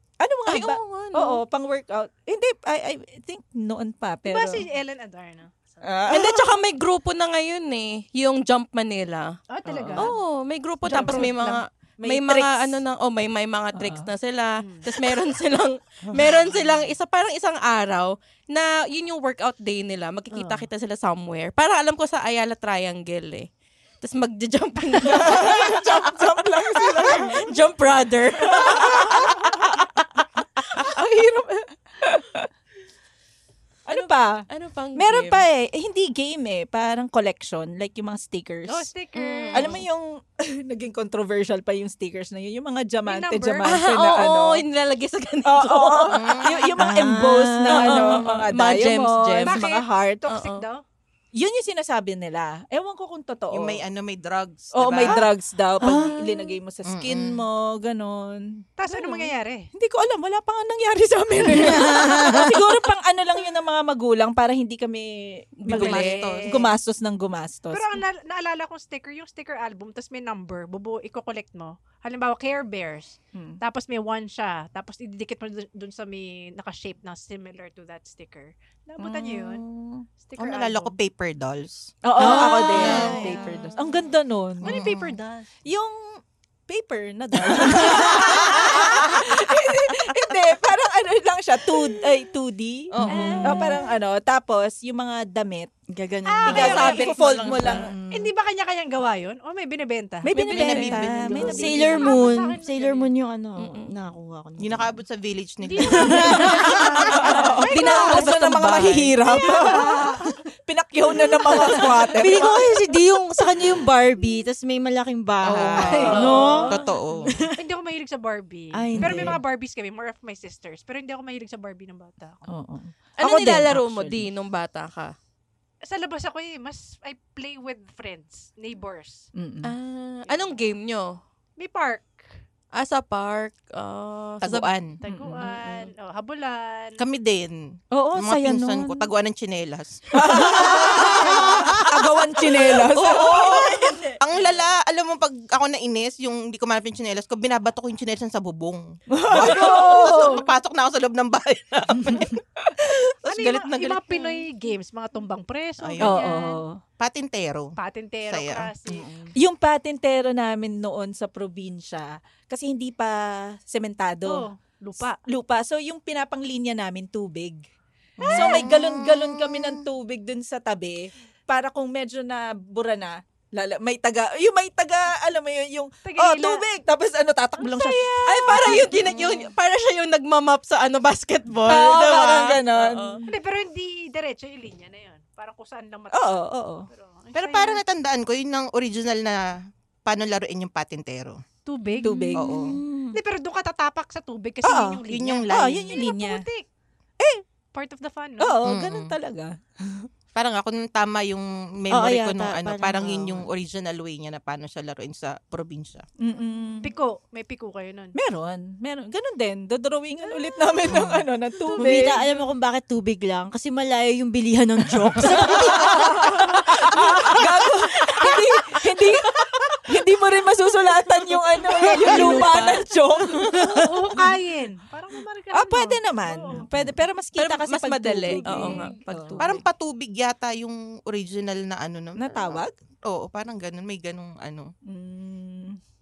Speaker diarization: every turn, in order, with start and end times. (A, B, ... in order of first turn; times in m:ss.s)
0:00.2-0:04.6 A
0:00.5-0:01.4 B
0:04.2-0:06.2 C
0:05.8-0:06.5 A
0:06.1-0:09.4 B
0:09.5-0:10.1 C
0:09.7-0:10.1 A
0:10.0-0:23.5 B
0:10.8-0:11.6 C
0:10.9-0:11.3 A
0:12.0-0:12.8 A
0:13.7-0:14.1 A
0:24.0-0:29.4 B
0:25.0-0:27.5 A
0:28.5-0:29.4 A
0:30.7-0:32.5 A
0:33.9-0:38.9 A
0:33.9-0:35.4 B
0:38.7-0:39.8 C
0:39.1-0:39.8 B
0:39.5-0:44.6 A
0:43.1-0:43.7 C
0:43.6-0:46.4 B
0:45.4-0:50.4 A
0:46.1-0:46.9 D
0:46.8-0:48.1 E
0:47.7-0:49.6 B
0:49.5-0:50.8 C
0:50.3-0:50.6 B
0:51.3-0:53.8 A
0:53.5-0:55.3 D
0:54.7-0:59.2 A
0:55.8-0:56.2 E
0:56.8-0:57.4 D
0:58.8-0:59.7 C
0:59.7-1:08.0 A
1:01.6-1:02.5 E
1:05.6-1:06.2 B
1:05.7-1:06.6 D
1:05.7-1:06.6 C
1:07.7-1:19.6 C
1:13.3-1:13.6 A
1:19.0-1:20.0 A
1:20.2-1:21.0 C
1:20.4-1:22.0 D
1:22.0-1:24.9 A
1:22.2-1:23.5 C
1:22.8-1:23.3 D
1:24.6-1:25.2 D
1:24.6-1:25.5 C
1:25.6-1:26.2 A
1:26.7-1:35.7 A
1:27.9-1:29.2 D
1:32.9-1:33.6 D
1:33.1-1:33.8 C
1:35.9-1:37.0 E
1:36.2-1:43.1 C
1:36.4-1:38.3 A
1:36.6-1:37.8 B
1:40.2-1:42.1 A
1:40.3-1:42.1 D
1:41.3-1:45.0 E
1:43.6-1:43.9 B
1:44.6-1:47.4 D
1:45.6-1:48.3 C
1:47.1-1:52.6 A
1:47.8-1:49.1 B
1:49.2-1:50.3 C
1:51.4-1:52.0 C
1:52.1-1:57.5 E
1:55.4-1:57.3 D
1:55.8-1:56.7 C
1:56.0-1:56.7 A
1:57.6-2:02.4 C
1:58.7-1:59.4 E
1:59.0-1:59.4 A
2:02.5-2:04.3 A
2:03.2-2:05.1 B
2:05.8-2:09.3 C
2:09.4-2:09.7 A
2:09.6-2:11.2 B
2:11.6-2:12.3 C
2:12.7-2:14.7 B
2:14.4-2:15.0 D
2:15.0-2:17.0 C
2:15.0-2:15.6 A
2:17.0-2:17.6 D
2:17.9-2:19.1 A
2:18.2-2:32.4 D
2:20.1-2:24.1 A
2:29.1-2:30.4 A
2:29.4-2:30.4 C
2:33.0-2:34.4 D
2:33.2-2:36.6 C
2:35.8-2:36.2 D
2:36.0-2:36.8 A
2:37.0-2:37.7 D
2:37.8-2:39.0 C
2:38.3-2:38.7 D
2:39.0-2:39.3 E
2:39.4-2:44.5 A
2:44.2-2:45.2 C
2:45.0-2:47.6 A
2:48.2-2:49.8 D
2:48.3-2:59.3 A
2:56.0-2:56.6 C
2:57.6-2:58.2 C
2:58.2-3:03.2 B
3:01.6-3:03.3 A
3:03.3-3:07.8 C
3:06.1-3:06.9 A
3:07.3-3:09.4 D
3:10.0-3:11.4 D
3:11.6-3:12.5 C
3:12.0-3:12.6 A
3:12.3-3:12.8 D
3:12.5-3:13.2 E
3:13.1-3:16.7 C
3:15.1-3:16.0 D
3:15.5-3:16.4 A
3:17.7-3:18.6 C
3:18.4-3:20.1 A
3:18.6-3:19.1 D
3:20.3-3:26.0 D
3:21.9-3:23.4 E
3:26.2-3:26.9 A
3:26.8-3:28.2 C
3:28.2-3:32.2 A
3:30.3-3:30.7 C
3:30.9-3:31.2 D
3:31.8-3:36.3 E
3:31.9-3:32.4 C
3:35.2-3:44.3 A
3:41.8-3:42.9 B
3:43.6-3:46.7 C
3:45.5-3:49.5 A
3:47.4-3:49.6 B
3:48.4-3:48.8 C
3:49.4-3:54.7 D
3:52.2-3:52.7 A
3:54.8-3:55.8 A